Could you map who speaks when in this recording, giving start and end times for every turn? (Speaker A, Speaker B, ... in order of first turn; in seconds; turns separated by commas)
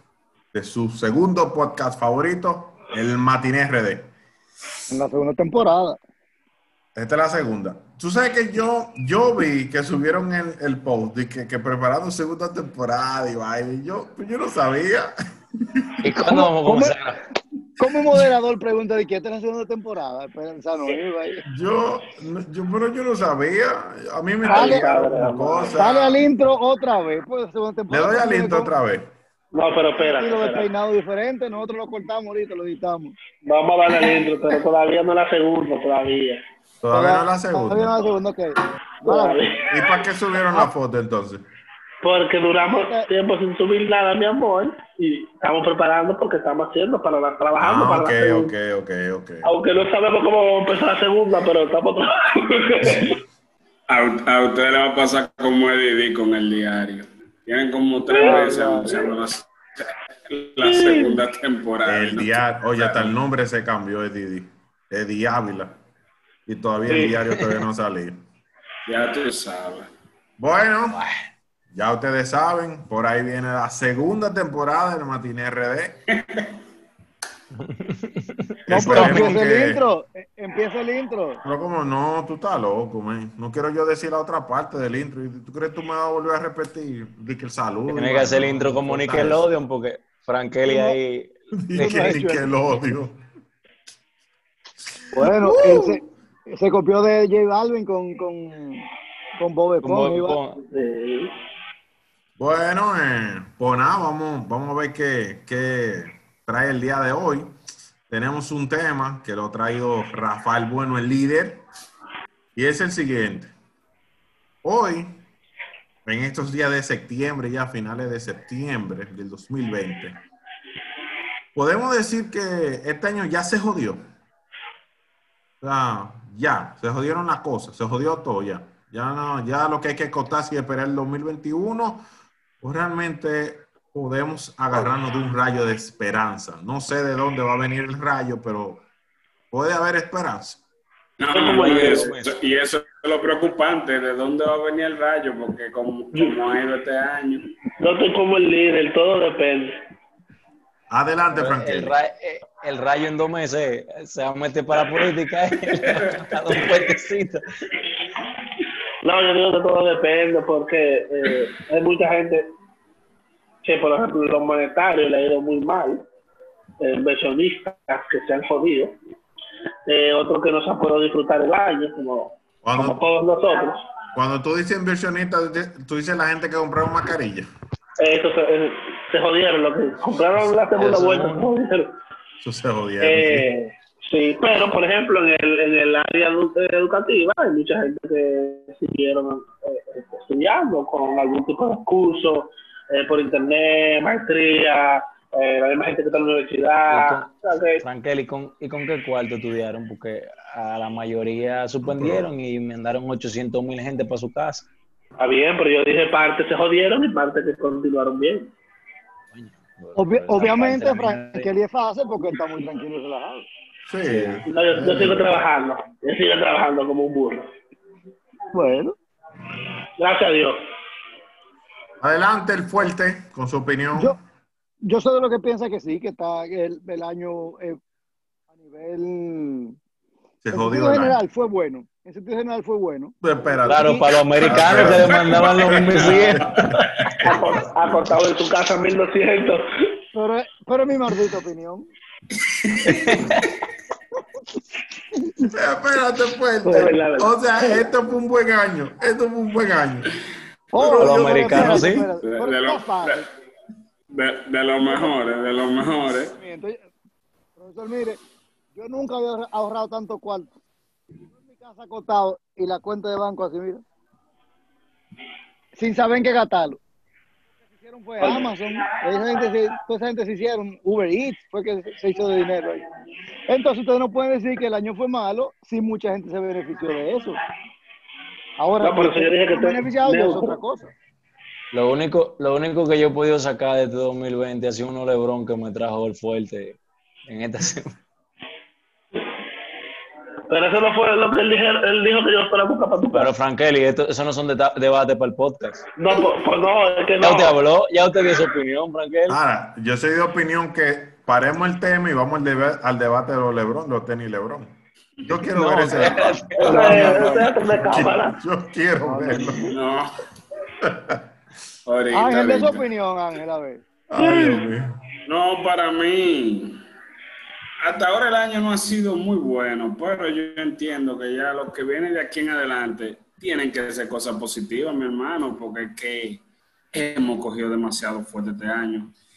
Speaker A: 0.5-4.1, Speaker B: 4.9-6.0, Speaker A: 6.9-16.0, Speaker C: 16.0-17.2, Speaker B: 16.3-17.0, Speaker B: 17.8-21.4, Speaker A: 21.5-26.2, Speaker D: 24.4-25.8, Speaker B: 24.5-24.9, Speaker B: 25.8-28.7, Speaker A: 27.9-29.1, Speaker D: 29.5-30.7, Speaker B: 30.0-33.1, Speaker D: 33.4-36.4, Speaker A: 36.8-37.9, Speaker B: 36.9-39.4, Speaker D: 39.0-39.9, Speaker A: 39.7-41.4, Speaker D: 42.0-48.5, Speaker B: 42.6-43.1, Speaker A: 47.6-49.5, Speaker D: 49.4-53.2, Speaker A: 52.8-53.2, Speaker E: 53.9-59.5, Speaker D: 58.1-58.5, Speaker B: 58.2-58.9, Speaker E: 60.3-63.1, Speaker D: 60.6-61.2, Speaker A: 61.8-65.8, Speaker A: 66.5-68.2, Speaker C: 66.9-67.6, Speaker E: 68.8-69.9, Speaker A: 70.4-71.0, Speaker C: 70.9-71.2, Speaker A: 71.7-76.0, Speaker C: 77.5-79.4, Speaker A: 78.7-79.8, Speaker B: 78.7-81.4, Speaker A: 81.4-89.5, Speaker C: 87.9-92.2, Speaker B: 90.7-91.0, Speaker A: 91.5-93.2, Speaker B: 91.7-92.5, Speaker B: 95.1-98.8, Speaker A: 95.2-96.0, Speaker B: 99.4-100.4, Speaker C: 99.8-100.6, Speaker D: 100.5-101.3, Speaker A: 102.4-107.5, Speaker A: 108.1-111.6, Speaker A: 112.5-113.5, Speaker A: 114.6-115.2, Speaker A: 116.0-120.2, Speaker A: 121.5-124.0, Speaker A: 125.6-132.0, Speaker A: 132.6-138.8, Speaker A: 139.5-140.6, Speaker E: 141.2-147.5, Speaker D: 141.3-142.1, Speaker C: 141.3-142.3, Speaker D: 147.8-149.8, Speaker A: 150.9-152.0, Speaker C: 151.3-157.4, Speaker D: 159.0-162.5, Speaker D: 163.6-166.0, Speaker D: 166.8-169.0, Speaker D: 169.8-173.9, Speaker A: 172.6-173.0, Speaker A: 174.1-177.5, Speaker D: 178.0-182.0, Speaker C: 180.4-181.5, Speaker A: 182.4-183.5, Speaker D: 183.0-197.8, Speaker C: 196.9-204.7, Speaker A: 201.8-202.2, Speaker D: 205.2-208.5, Speaker C: 209.3-211.5, Speaker B: 209.9-213.5, Speaker A: 213.8-215.4, Speaker C: 214.0-214.4, Speaker D: 214.4-217.5, Speaker B: 218.5-218.9, Speaker A: 219.4-219.7, Speaker D: 220.0-220.7, Speaker A: 222.0-224.2, Speaker B: 224.8-227.8, Speaker B: 228.5-229.8, Speaker A: 230.4-231.2, Speaker B: 230.5-233.1, Speaker A: 233.2-235.3, Speaker C: 233.7-236.5, Speaker B: 233.8-234.0, Speaker E: 235.2-237.2, Speaker A: 235.9-237.9, Speaker D: 237.2-240.0, Speaker B: 240.1-241.9, Speaker E: 242.4-243.2, Speaker C: 242.8-243.6, Speaker A: 245.5-250.1, Speaker D: 246.6-247.9, Speaker B: 250.7-253.3, Speaker E: 250.8-253.2, Speaker C: 251.0-252.1, Speaker E: 254.1-256.4, Speaker B: 256.3-256.8, Speaker B: 257.6-258.2, Speaker B: 258.7-260.5, Speaker B: 261.3-263.8, Speaker B: 265.8-266.8, Speaker B: 267.8-272.8, Speaker D: 268.2-268.6, Speaker B: 273.5-277.4, Speaker B: 278.6-280.9, Speaker D: 278.8-280.6, Speaker C: 281.7-287.9, Speaker D: 290.5-293.3, Speaker C: 293.1-295.9, Speaker D: 296.0-297.6, Speaker C: 297.2-299.4, Speaker A: 299.3-309.7, Speaker C: 305.5-307.1, Speaker D: 306.6-308.4, Speaker E: 306.8-307.5, Speaker B: 309.0-309.7, Speaker E: 309.4-310.1, Speaker A: 310.8-311.2, Speaker E: 311.9-312.9, Speaker B: 312.1-314.6, Speaker A: 314.1-314.9, Speaker E: 315.2-316.8, Speaker E: 317.8-326.4, Speaker E: 326.9-329.1